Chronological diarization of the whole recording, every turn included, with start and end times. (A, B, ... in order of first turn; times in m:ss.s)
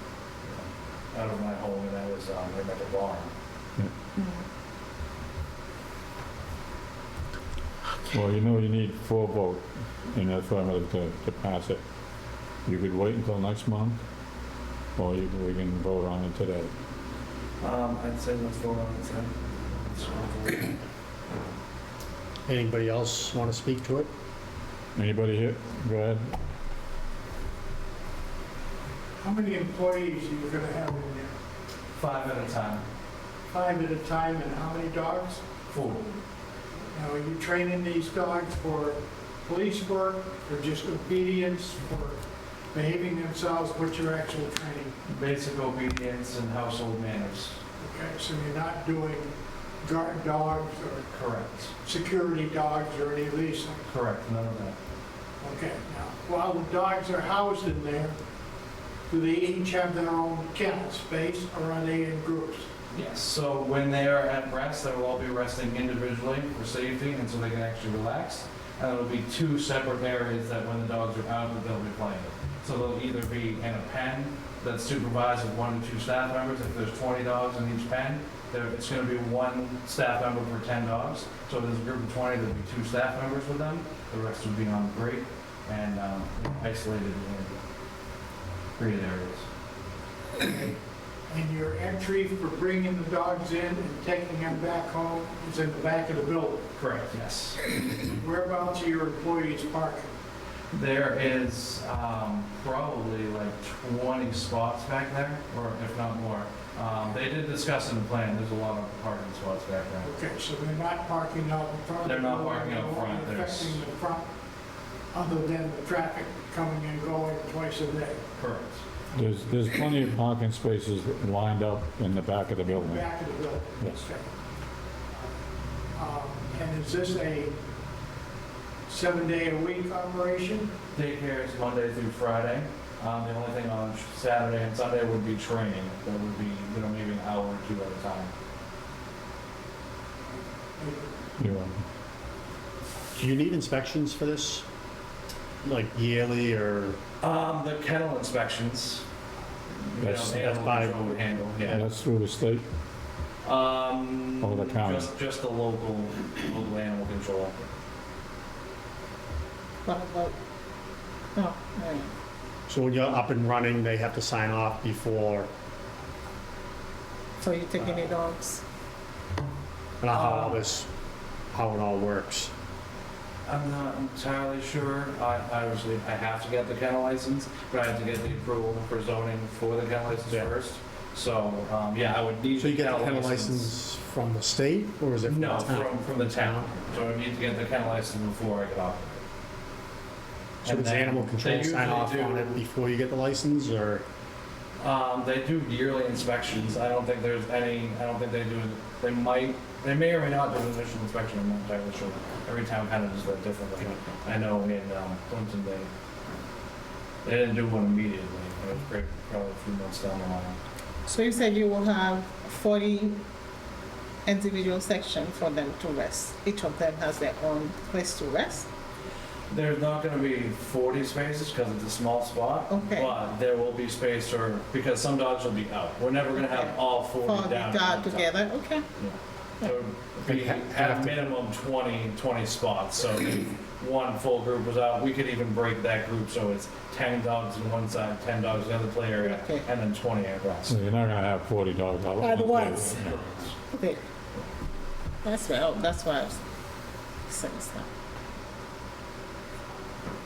0:00.4-0:03.3 A
0:04.2-0:04.4 B
0:08.1-0:11.8 C
0:12.6-0:14.0 C
0:15.0-0:16.7 C
0:17.6-0:20.8 A
0:22.5-0:24.1 D
0:25.0-0:26.3 C
0:29.2-0:31.3 E
0:32.0-0:32.8 A
0:33.5-0:35.4 E
0:35.7-0:36.1 A
0:36.9-0:44.9 E
0:45.1-0:47.6 A
0:47.8-0:51.1 E
0:51.1-0:51.7 A
0:51.8-0:53.9 E
0:53.9-0:54.8 A
0:55.4-0:58.2 E
0:59.1-1:02.7 E
1:02.9-1:27.6 A
1:28.8-1:29.5 A
1:30.4-1:30.8 E
1:31.3-1:36.7 E
1:36.8-1:37.7 A
1:38.1-1:40.2 E
1:40.7-1:50.1 A
1:50.0-1:54.3 E
1:52.0-1:53.8 A
1:55.1-1:58.2 E
1:58.4-1:58.8 A
1:59.1-2:03.0 C
2:02.7-2:04.3 E
2:06.0-2:07.6 E
2:08.9-2:10.7 E
2:10.9-2:18.3 A
2:20.8-2:21.1 E
2:21.4-2:21.8 C
2:23.1-2:24.6 D
2:25.6-2:27.0 D
2:27.2-2:29.0 A
2:29.8-2:31.8 A
2:30.0-2:30.4 C
2:30.2-2:31.8 D
2:31.6-2:32.6 C
2:33.4-2:37.6 A
2:34.4-2:35.1 C
2:39.8-2:40.3 B
2:41.4-2:42.1 B
2:42.7-2:45.5 D
2:47.4-2:48.6 B
2:50.0-2:50.9 D
2:50.1-2:50.6 A
2:51.5-2:52.5 D
2:53.4-3:03.7 A
3:02.6-3:06.7 D
3:05.2-3:09.2 A
3:10.6-3:12.6 A
3:10.6-3:14.0 D
3:14.8-3:25.9 A
3:27.2-3:30.6 A
3:31.1-3:33.2 B
3:34.2-3:38.6 B
3:39.5-3:48.3 A
3:42.7-3:43.1 B
3:46.4-3:48.8 B
3:49.0-4:00.8 A
3:50.3-3:51.1 D
3:59.2-3:59.6 B
4:00.7-4:03.2 C
4:02.2-4:02.8 B
4:02.7-4:03.6 A
4:03.7-4:04.0 B
4:05.2-4:06.4 B
4:07.3-4:07.8 B